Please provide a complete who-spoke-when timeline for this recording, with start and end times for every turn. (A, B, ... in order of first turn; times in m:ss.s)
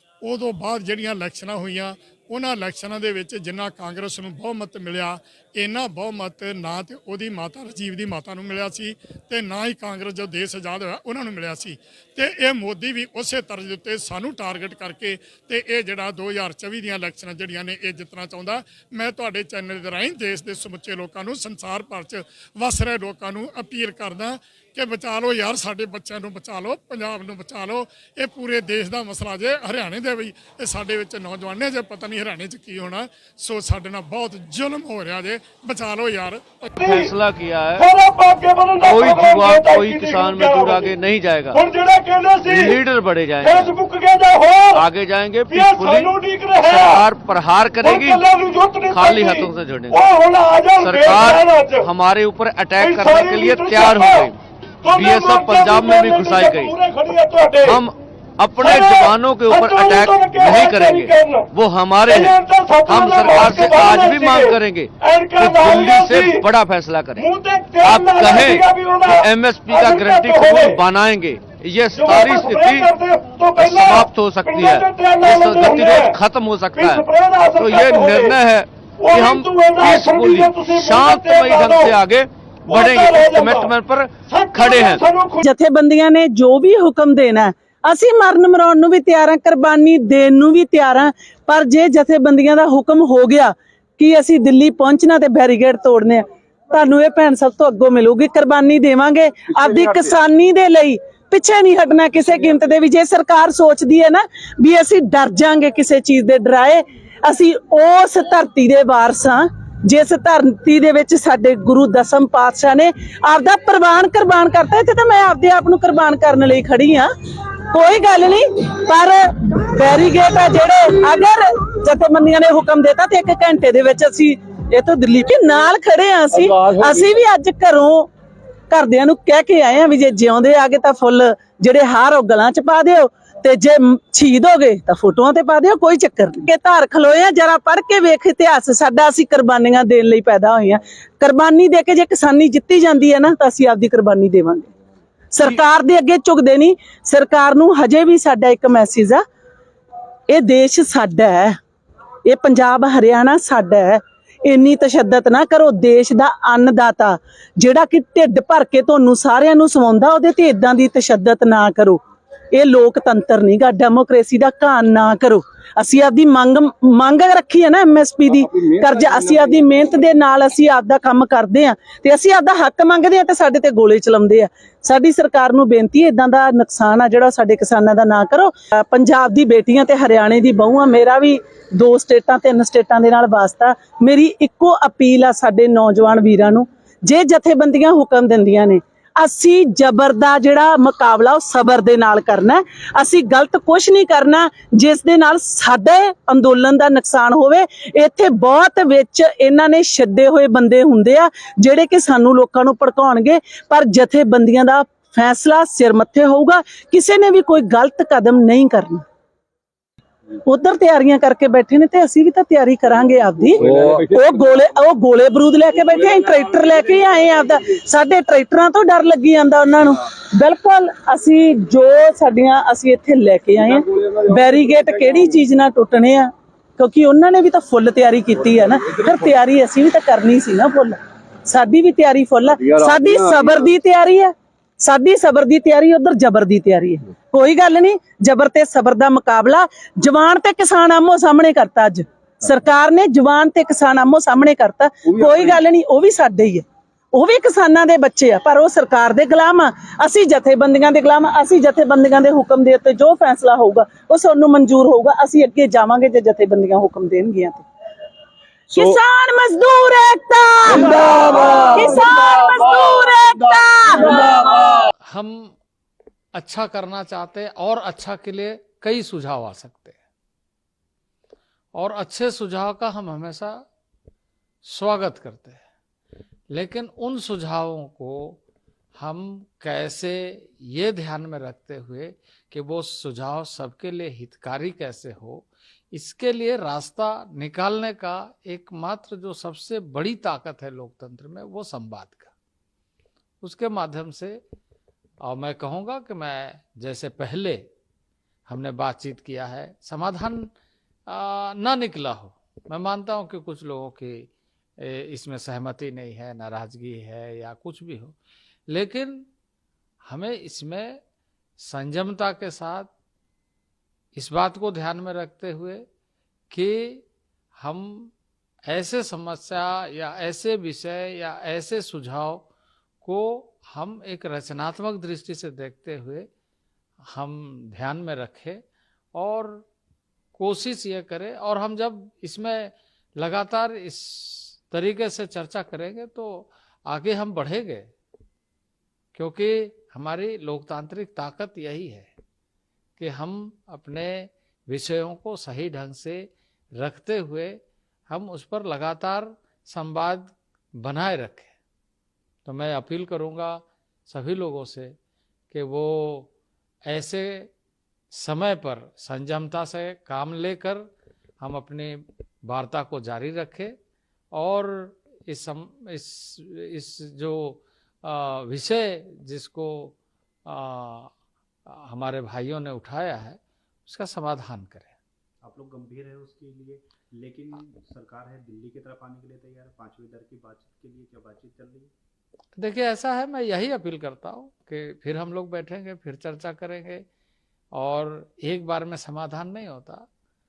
0:00.2-0:36.7 A
0:36.8-0:37.1 B
0:36.8-0:37.8 C
0:37.8-0:41.0 B
0:38.8-0:41.6 C
0:41.5-0:42.8 B
0:42.4-0:43.8 C
0:43.4-0:44.8 B
0:44.7-0:48.3 C
0:45.5-0:47.0 B
0:47.8-0:51.9 B
0:48.8-0:50.0 C
0:50.8-0:54.4 C
0:52.8-0:54.3 B
0:54.8-0:57.8 B
0:54.9-0:56.8 C
0:57.6-1:07.3 C
0:58.6-1:01.5 B
1:02.0-1:06.4 B
1:07.2-1:10.8 B
1:07.8-1:12.9 C
1:11.9-1:16.2 B
1:13.5-1:25.0 C
1:16.7-1:18.4 B
1:19.0-1:22.0 B
1:22.7-1:23.7 B
1:24.2-1:25.4 B
1:25.4-1:57.1 D
1:57.7-2:08.1 D
2:08.7-2:24.7 D
2:25.3-2:29.2 D
2:30.3-2:31.6 D
2:32.2-2:42.0 D
2:42.5-3:29.0 D
3:30.4-4:17.6 D
4:18.7-4:24.4 D
4:25.1-4:25.6 E
4:26.4-4:30.0 E
4:31.7-4:33.6 E
4:34.6-4:35.6 E
4:36.5-4:38.4 E
4:39.0-4:52.3 E
4:53.4-4:54.4 E
4:55.2-4:57.7 E
4:58.5-5:00.5 E
5:01.1-5:08.2 E
5:08.7-5:09.3 E
5:10.0-5:11.0 E
5:11.6-5:12.9 E
5:14.1-5:15.8 E
5:16.5-5:17.0 E
5:17.6-5:18.1 E
5:18.7-5:22.5 E
5:23.0-5:26.3 E
5:27.0-5:28.6 E
5:29.1-5:29.6 E
5:30.3-5:37.9 E
5:39.1-5:42.1 E
5:43.0-5:51.5 E
5:52.4-5:55.0 E
5:55.5-5:56.3 E
5:56.9-5:57.5 E
5:58.1-6:03.8 E
6:04.3-6:10.0 E
6:10.5-6:11.1 E
6:11.7-6:15.0 E
6:15.4-6:21.9 F
6:22.6-6:27.0 E
6:27.7-6:30.0 E